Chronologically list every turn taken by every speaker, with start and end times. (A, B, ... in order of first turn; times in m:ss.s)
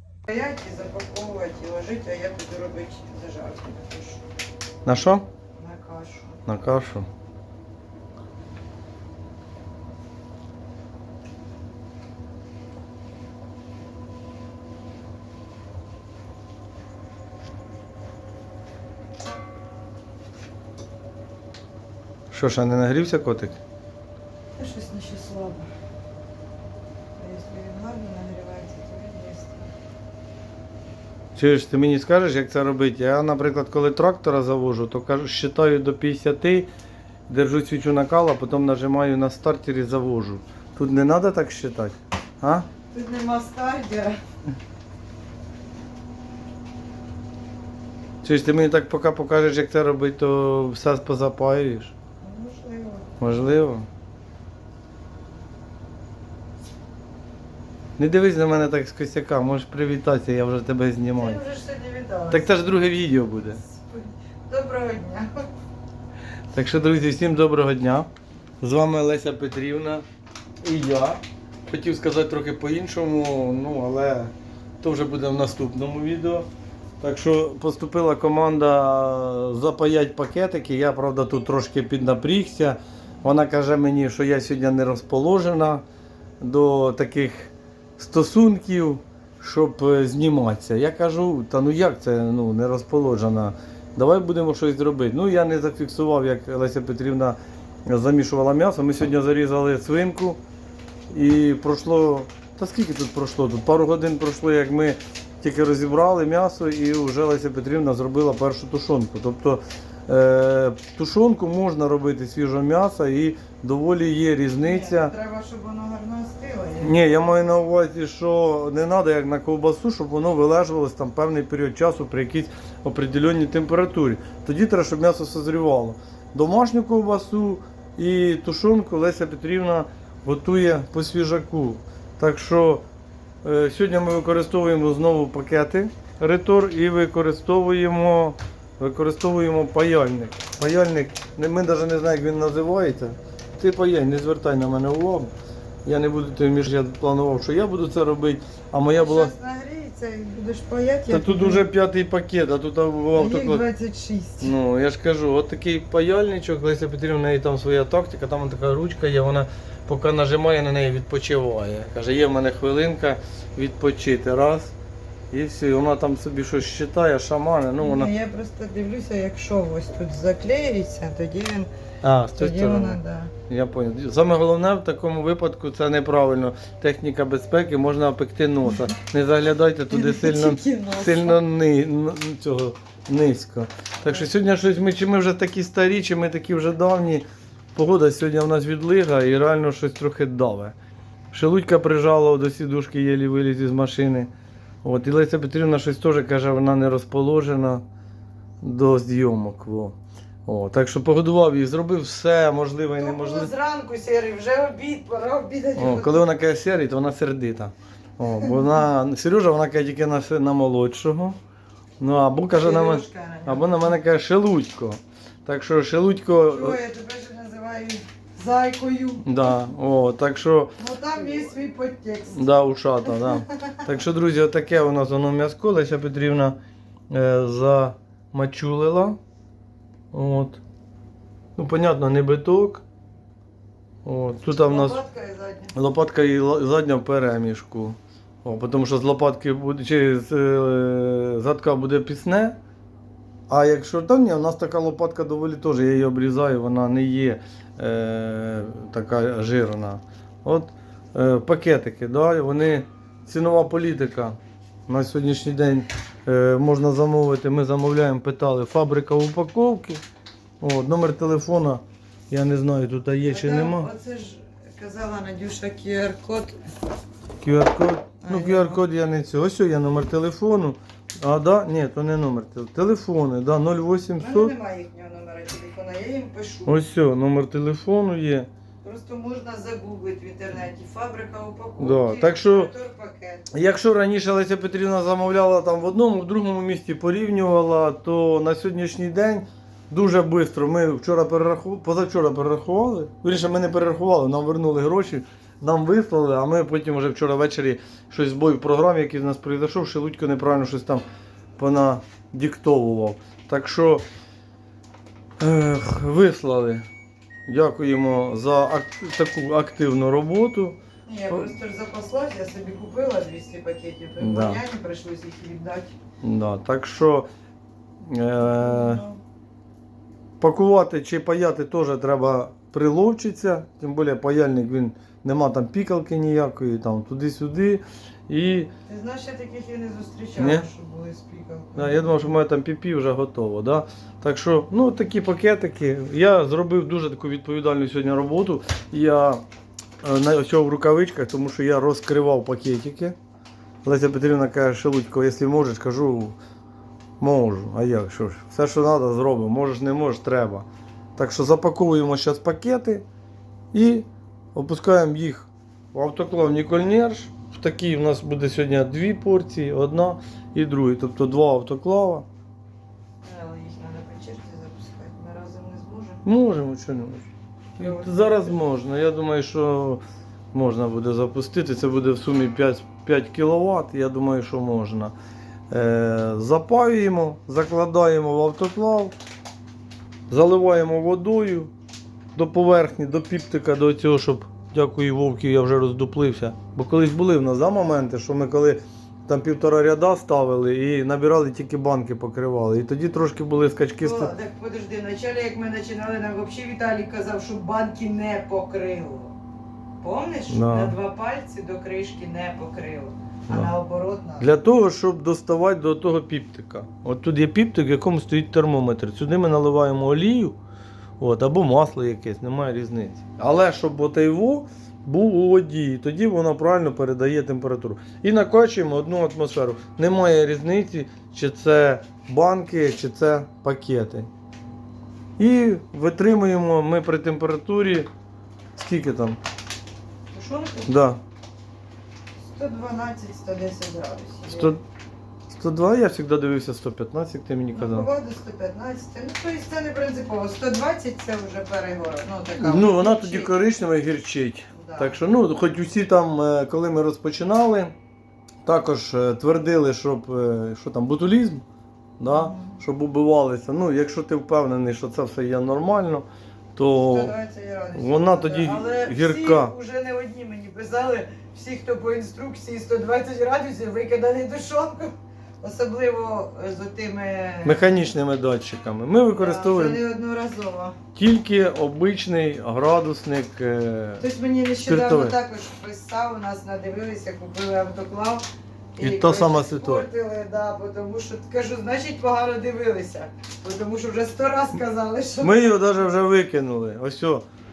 0:00.3-0:04.2 A
0:04.8-0:05.2 B
0:05.5-0:06.4 A
0:06.4-0:07.1 B
0:22.3-0:23.6 B
0:24.5-0:25.7 A
0:27.2-0:29.7 A
0:31.4-0:36.7 B
0:37.3-0:42.6 B
0:42.9-0:44.2 A
0:48.2-0:51.9 B
0:52.2-0:53.3 A
0:53.2-0:53.9 B
0:58.0-1:01.4 B
1:01.1-1:02.5 A
1:02.3-1:03.6 B
1:03.6-1:05.4 A
1:06.5-1:08.1 B
1:08.6-1:10.0 B
1:10.6-1:16.5 B
1:17.0-1:25.8 B
1:26.4-1:40.4 B
1:41.1-1:55.1 B
1:54.6-1:57.0 A
1:56.8-2:12.8 B
2:13.4-2:25.3 B
2:25.8-2:29.3 B
2:28.9-2:31.6 A
2:31.1-2:33.6 B
2:33.1-2:34.5 A
2:34.4-2:44.7 B
2:45.3-2:48.1 B
2:47.8-2:51.7 A
2:52.0-3:10.7 B
2:52.4-2:53.3 A
2:59.9-3:01.4 A
3:11.3-3:14.3 B
3:14.8-3:17.8 B
3:18.6-3:23.5 B
3:23.0-3:26.2 A
3:25.8-3:31.4 B
3:32.0-3:36.8 B
3:32.6-3:34.0 A
3:36.4-3:39.4 A
3:39.2-3:40.8 B
3:40.8-3:42.5 A
3:42.3-3:46.6 B
3:47.1-3:49.2 B
3:50.1-3:50.6 B
3:51.6-3:52.8 B
3:54.0-3:55.0 B
3:54.6-3:55.7 A
3:55.7-4:02.6 B
4:03.5-4:20.0 B
4:20.6-4:23.9 B
4:23.3-4:26.6 A
4:27.4-4:34.5 B
4:28.2-4:28.8 A
4:34.2-4:36.8 A
4:36.6-4:38.5 B
4:38.8-4:43.5 A
4:41.8-4:42.7 B
4:43.5-5:01.0 B
5:01.6-5:04.0 B
5:05.4-5:06.8 B
5:07.5-5:10.8 B
5:11.1-5:16.0 A
5:14.2-5:14.6 B
5:16.2-5:17.3 B
5:18.0-5:19.0 B
5:18.4-5:19.2 A
5:20.4-5:28.7 B
5:28.8-5:32.1 A
5:30.4-5:30.7 B
5:31.8-5:39.4 B
5:40.0-5:43.2 B
5:43.8-5:46.4 B
5:47.2-5:50.6 B
5:51.2-5:53.0 B
5:53.7-6:02.2 B
6:03.2-6:06.2 A
6:06.2-6:10.0 B
6:07.8-6:08.6 A
6:10.5-6:15.1 B
6:15.7-6:19.1 B
6:20.3-6:21.7 B
6:22.3-6:34.3 B
6:34.0-6:39.3 A
6:40.0-6:44.5 A
6:40.5-6:41.0 B
6:43.5-6:43.7 B
6:44.4-6:50.6 B
6:51.2-7:04.3 B
7:05.4-7:08.1 B
7:08.7-7:09.4 B
7:10.3-7:10.9 A
7:10.9-7:11.2 B
7:12.4-7:14.8 A
7:14.5-7:14.8 B
7:15.5-7:18.1 B
7:17.7-7:23.5 A
7:22.6-7:27.9 B
7:24.7-7:25.2 A
7:28.6-7:31.6 B
7:32.2-7:37.3 B
7:32.2-7:32.8 A
7:37.0-7:48.1 A
7:37.9-7:39.7 B
7:47.6-7:50.0 B
7:49.3-7:51.0 A
7:51.1-7:54.2 B
7:54.2-7:58.4 A
7:54.8-7:55.4 B
7:59.0-8:05.9 A
7:59.0-8:00.1 B
8:05.4-8:07.4 B